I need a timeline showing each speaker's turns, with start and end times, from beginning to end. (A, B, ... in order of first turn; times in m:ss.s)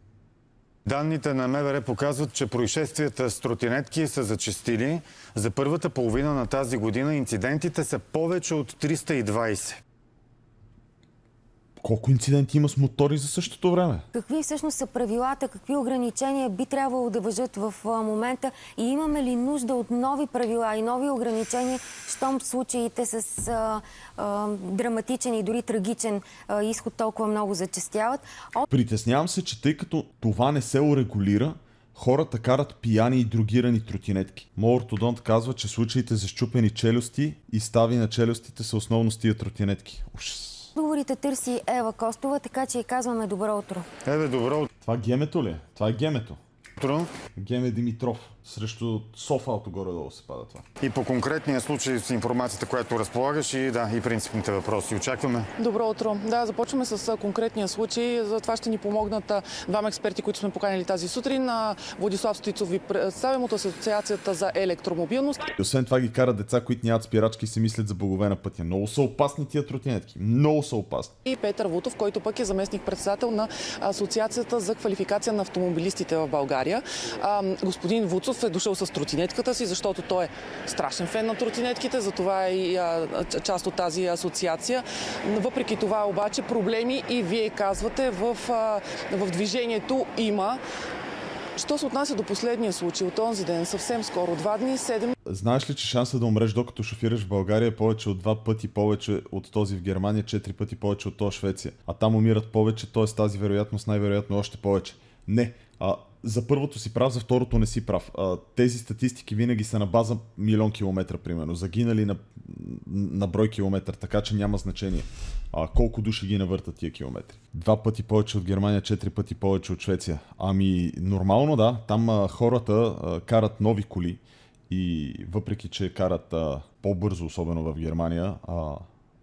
0:00.8-0:09.8 A
0:11.8-0:14.0 B
0:14.1-0:28.6 C
0:28.7-0:40.7 B
0:40.7-0:43.9 C
0:44.0-0:44.7 A
0:44.8-0:46.4 B
0:46.8-0:47.1 A
0:47.4-0:50.6 B
0:50.8-0:55.5 A
0:55.6-1:05.5 D
1:05.6-1:11.1 B
1:11.2-1:30.6 D
1:31.6-1:35.1 D
1:35.2-2:08.8 B